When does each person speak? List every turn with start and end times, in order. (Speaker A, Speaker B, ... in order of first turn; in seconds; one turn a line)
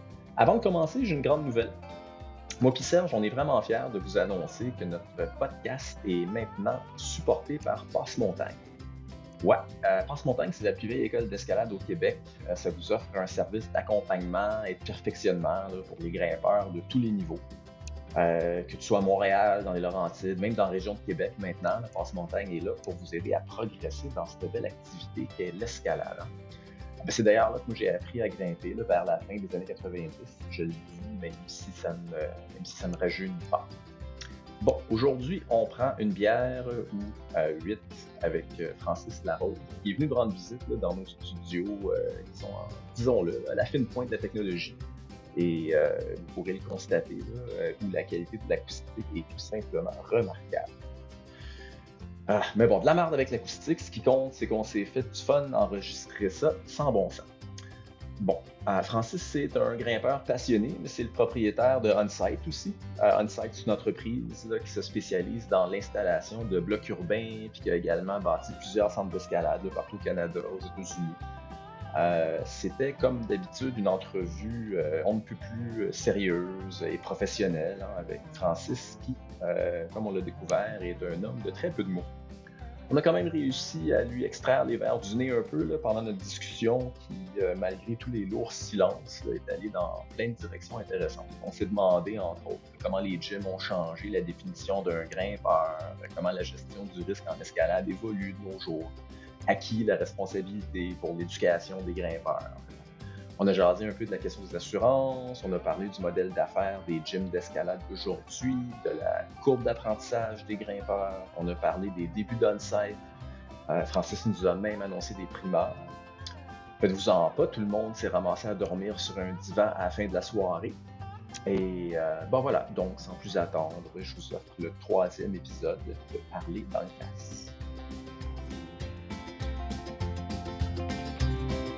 Speaker A: 0.4-1.8
Speaker A: 2.6-8.6
Speaker A: 9.4-17.4
Speaker A: 18.1-26.3
Speaker A: 27.0-33.7
Speaker A: 34.6-44.8
Speaker A: 45.3-50.7
Speaker A: 52.3-57.3
Speaker A: 58.2-71.2
Speaker A: 71.9-82.1
Speaker A: 82.9-98.9
Speaker A: 99.5-113.0
Speaker A: 113.7-115.9
Speaker A: 116.8-120.8
Speaker A: 121.5-127.5